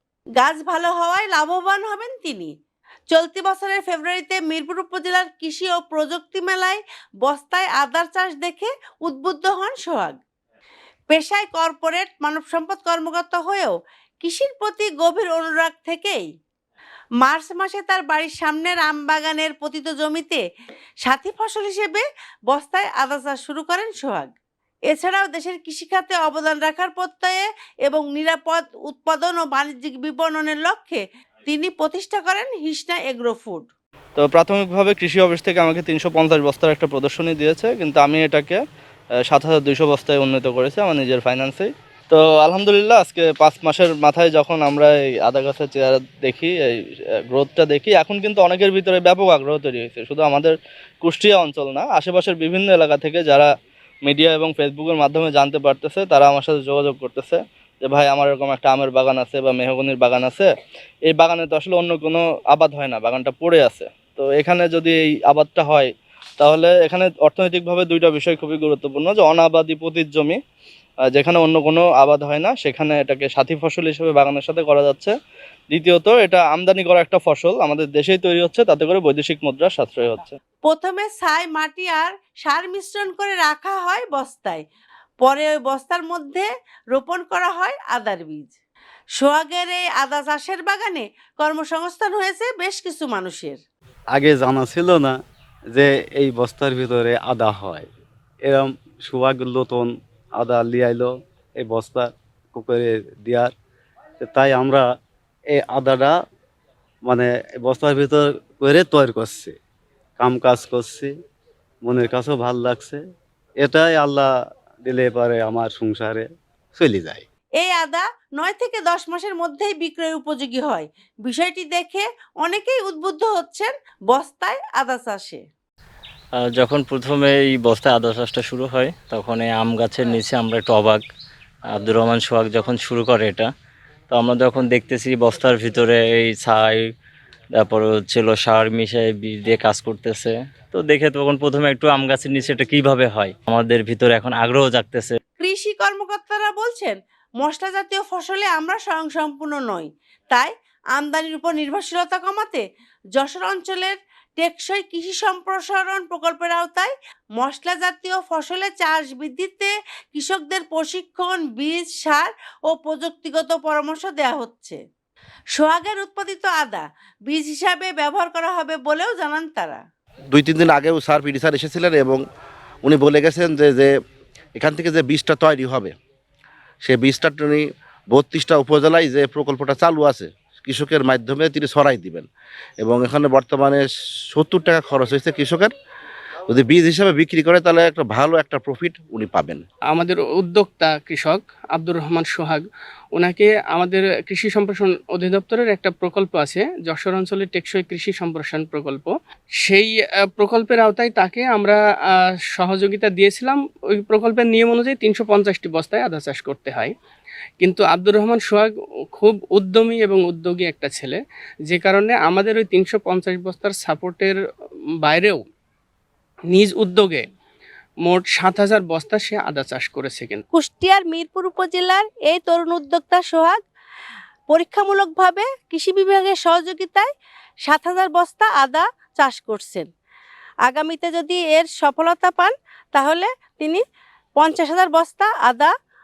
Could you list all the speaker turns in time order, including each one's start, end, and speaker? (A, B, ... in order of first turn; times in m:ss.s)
0:00.4-0:02.5 A
0:03.1-0:10.2 A
0:11.1-0:16.3 A
0:17.2-0:20.4 A
0:21.0-0:24.3 A
0:24.9-0:33.7 A
0:34.2-0:38.6 B
0:39.2-0:46.6 B
0:47.3-0:53.5 B
0:54.0-1:00.5 B
1:01.1-1:05.9 B
1:06.4-1:10.4 B
1:11.1-1:15.1 B
1:15.7-1:20.4 B
1:20.6-1:24.6 A
1:25.2-1:28.5 A
1:29.2-1:33.6 A
1:34.1-1:35.2 C
1:35.7-1:37.9 C
1:38.4-1:43.5 C
1:44.2-1:44.8 C
1:45.5-1:46.1 C
1:47.0-1:49.5 C
1:50.2-1:51.1 C
1:51.8-1:53.0 C
1:53.6-1:54.3 C
1:54.8-1:57.2 C
1:57.6-2:05.4 A
2:06.3-2:11.0 D
2:11.7-2:13.5 D
2:14.1-2:16.9 D
2:17.6-2:25.2 D
2:25.4-2:32.6 A
2:33.2-2:44.8 A
2:45.5-2:49.8 A
2:50.3-2:52.2 E
2:52.8-2:53.9 E
2:54.6-2:55.9 E
2:56.8-3:02.3 E
3:02.8-3:05.7 E
3:06.5-3:09.6 E
3:09.9-3:21.8 F
3:22.5-3:26.9 F
3:27.6-3:34.4 F
3:35.0-3:35.4 F
3:36.5-3:37.2 F
3:38.0-3:40.4 F
3:40.5-3:43.6 A
3:44.5-3:47.1 A
3:47.6-3:49.9 A
3:50.6-3:53.8 A
3:54.4-3:55.7 A